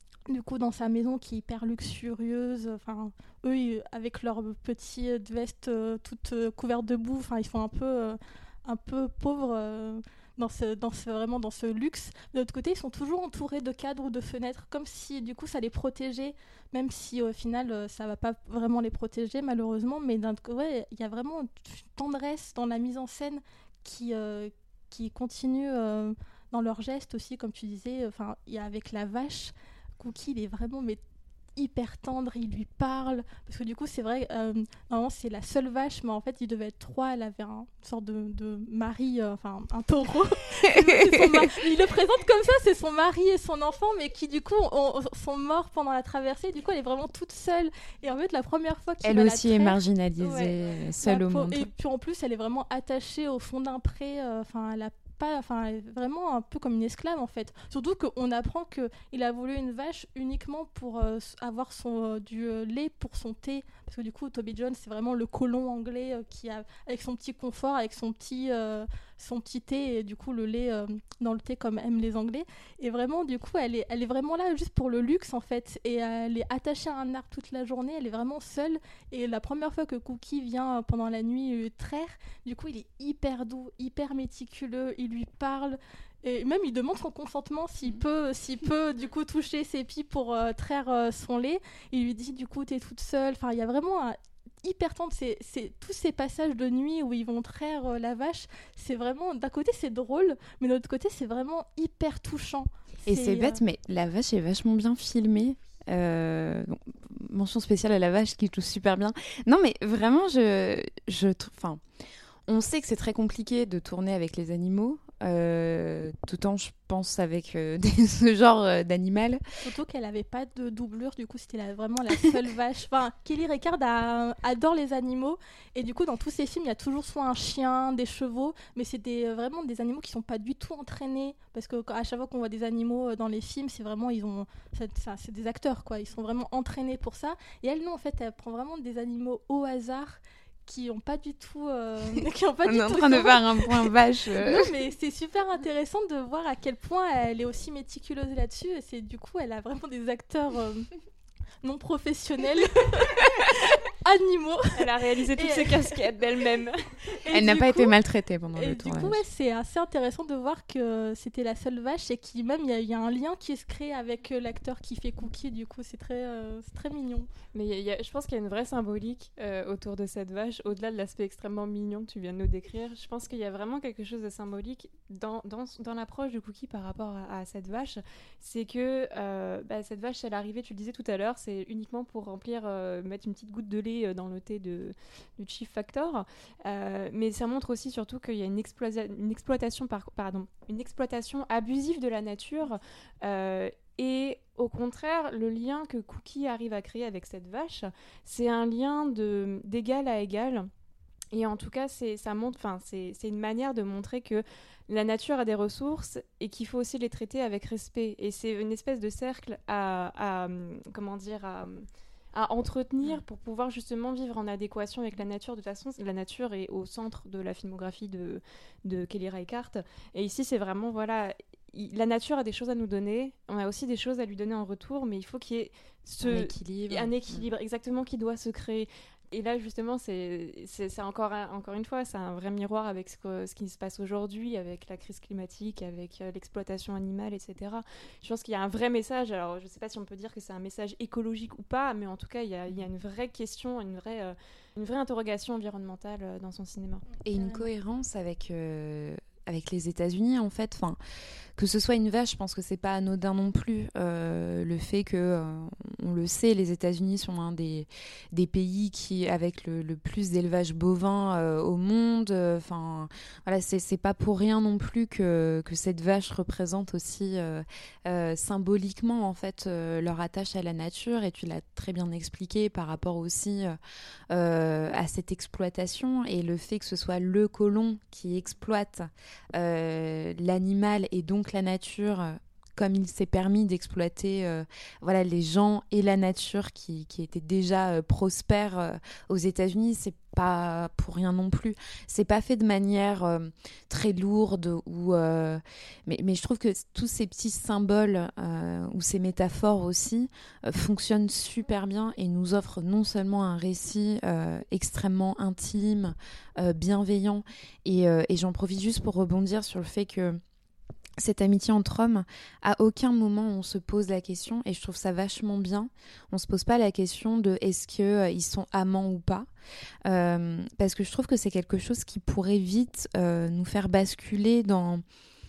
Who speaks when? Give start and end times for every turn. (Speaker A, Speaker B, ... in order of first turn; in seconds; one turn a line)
Speaker A: 0.3-31.0
Speaker A: 31.6-50.4
Speaker B: 40.7-41.4
Speaker B: 49.0-51.7
Speaker A: 51.0-103.6
Speaker B: 103.0-111.8
Speaker B: 112.5-119.4
Speaker A: 119.6-150.9
Speaker B: 142.6-144.7
Speaker A: 151.6-154.7
Speaker C: 154.7-156.8
Speaker A: 155.4-155.9
Speaker A: 157.2-157.9
Speaker B: 157.3-159.2
Speaker A: 158.5-167.3
Speaker C: 167.5-200.7
Speaker C: 201.3-247.1
Speaker B: 226.2-227.4
Speaker B: 247.2-251.0
Speaker A: 247.3-247.6
Speaker B: 251.6-273.8
Speaker B: 274.3-310.4
Speaker B: 311.2-319.5
Speaker B: 320.0-325.0